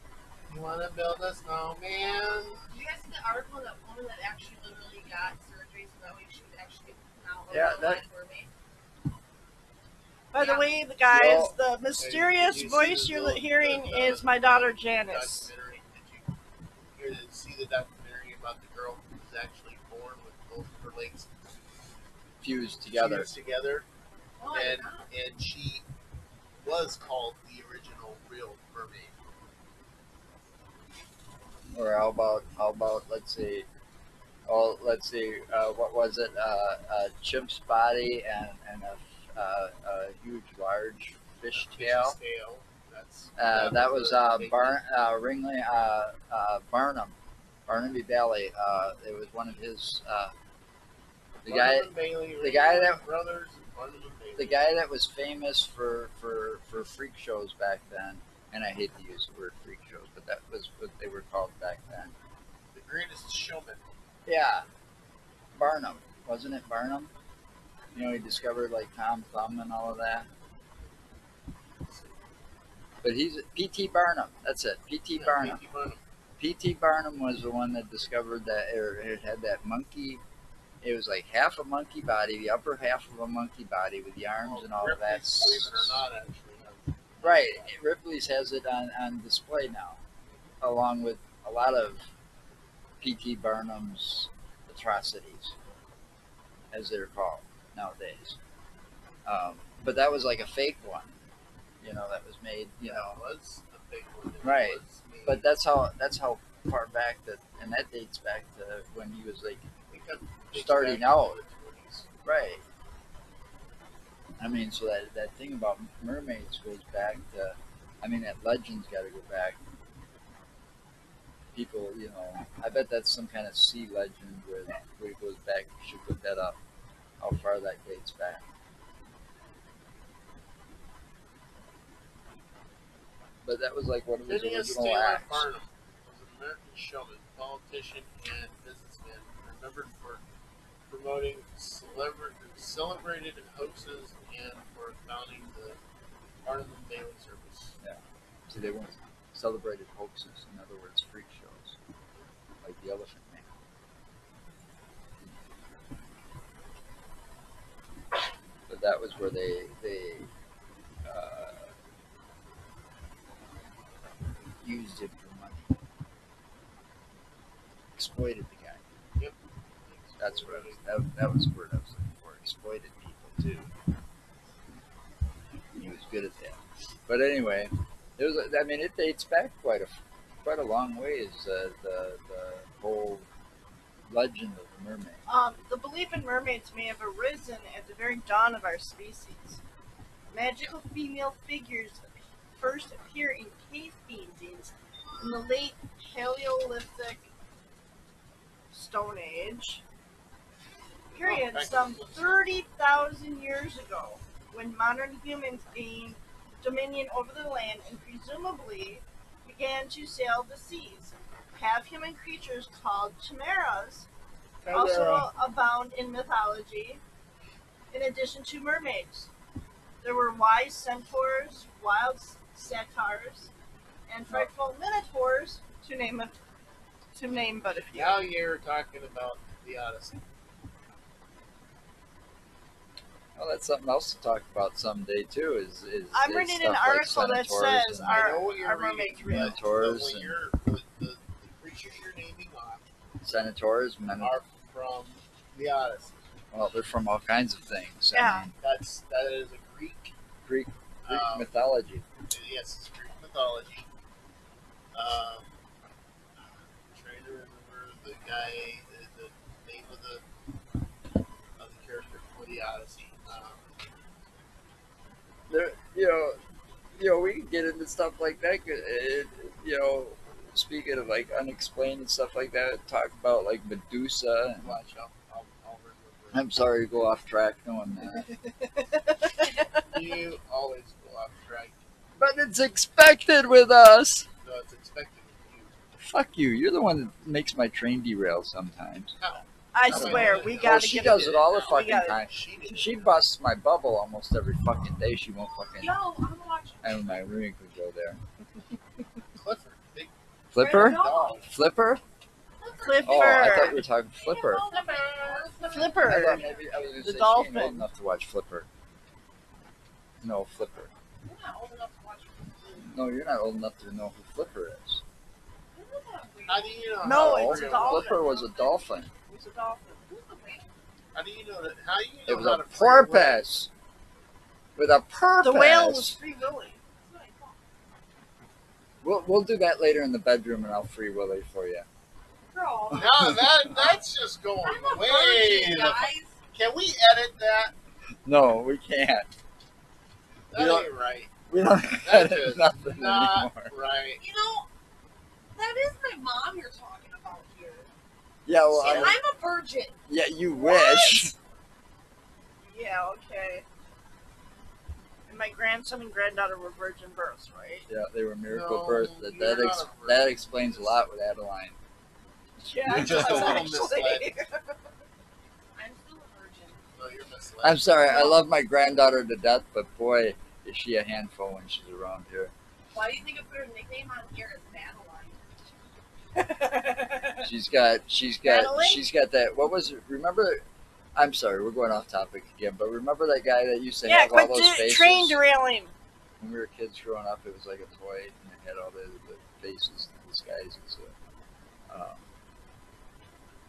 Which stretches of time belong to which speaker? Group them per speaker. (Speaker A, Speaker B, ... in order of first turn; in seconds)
Speaker A: 0.5-2.6, 12.0-16.3, 16.9-21.4, 22.9-23.9, 24.5-25.9, 26.6-29.1, 41.5-44.8, 51.4-54.6, 62.7-63.9, 71.8-72.2, 75.1-76.0, 84.4-87.7, 102.8-105.4, 109.9-112.1, 134.3-140.2, 140.9-145.8, 146.4-147.8, 169.2-170.8, 201.2-202.5, 214.6-215.3, 227.9-230.2, 238.1-242.8, 244.2-246.2, 248.6-250.1, 251.0-251.5, 252.3-253.9, 254.9-255.5, 256.4-260.2, 261.6-263.7, 274.6-276.5, 279.8-281.8, 284.4-285.7, 289.2-293.2, 299.3-301.5, 316.5-318.2, 321.1-323.4, 332.9-337.7, 340.5-341.4, 341.9-344.2, 348.8-349.2, 358.4-361.0, 362.9-364.3, 366.9-368.0
Speaker B: 2.7-8.5, 10.3-10.7, 24.4-25.1, 295.6-297.0, 300.6-301.4, 302.6-307.0, 311.2-312.8, 315.7-317.1, 318.2-318.8, 320.1-320.7, 327.0-327.6, 332.5-334.0, 334.6-336.3, 344.2-344.7, 345.5-347.9, 348.7-350.0, 350.6-351.3, 365.8-366.8, 372.9-375.4
Speaker C: 7.5-8.0, 11.1-11.5, 22.4-23.3, 31.7-33.6, 34.5-42.2, 43.4-47.1, 47.7-50.3, 51.4-53.0, 54.4-62.1, 64.2-64.7, 65.5-67.1, 67.9-70.3, 73.0-75.6, 76.4-80.2, 80.8-86.0, 87.2-90.0, 90.6-92.0, 93.0-95.5, 96.7-98.4, 99.2-101.1, 101.8-103.2, 104.4-109.6, 110.5-111.4, 112.2-112.6, 114.4-119.6, 121.5-126.6, 127.2-128.4, 133.4-135.5, 147.8-151.8, 152.6-153.5, 158.7-160.3, 161.0-161.7, 164.6-165.7, 168.0-168.8, 170.2-173.7, 175.7-183.2, 184.1-185.2, 233.4-238.3, 239.2-240.3, 243.2-244.3, 246.5-248.5, 250.4-252.0, 265.5-266.4, 267.0-274.8, 276.3-278.3, 282.2-284.3, 286.0-289.1, 289.9-295.9, 296.8-298.2, 300.5-302.0, 303.0-304.6, 306.0-308.7, 310.2-310.9, 312.8-315.0, 317.1-319.1, 322.3-323.7, 324.8-326.2, 329.0-331.9, 338.2-339.3, 340.5-340.9, 341.5-343.7, 348.4-349.2, 350.1-351.3, 357.9-361.8, 367.6-372.5, 377.4-380.6, 381.1-385.4, 386.4-391.1, 391.9-392.2
Speaker D: 10.3-15.5, 185.3-189.6, 190.3-197.3, 198.7-199.8, 201.1-214.1, 214.7-217.0, 217.9-219.3, 220.0-223.5, 224.1-226.3, 227.2-228.2, 236.1-239.5, 248.1-248.5, 289.7-292.2, 302.8-303.8, 305.6-306.4, 307.0-307.9, 317.0-318.5, 319.3-320.1, 325.4-326.8, 352.6-353.6, 355.3-357.9, 362.6-364.6, 376.4-377.3, 378.4-379.0, 384.0-385.9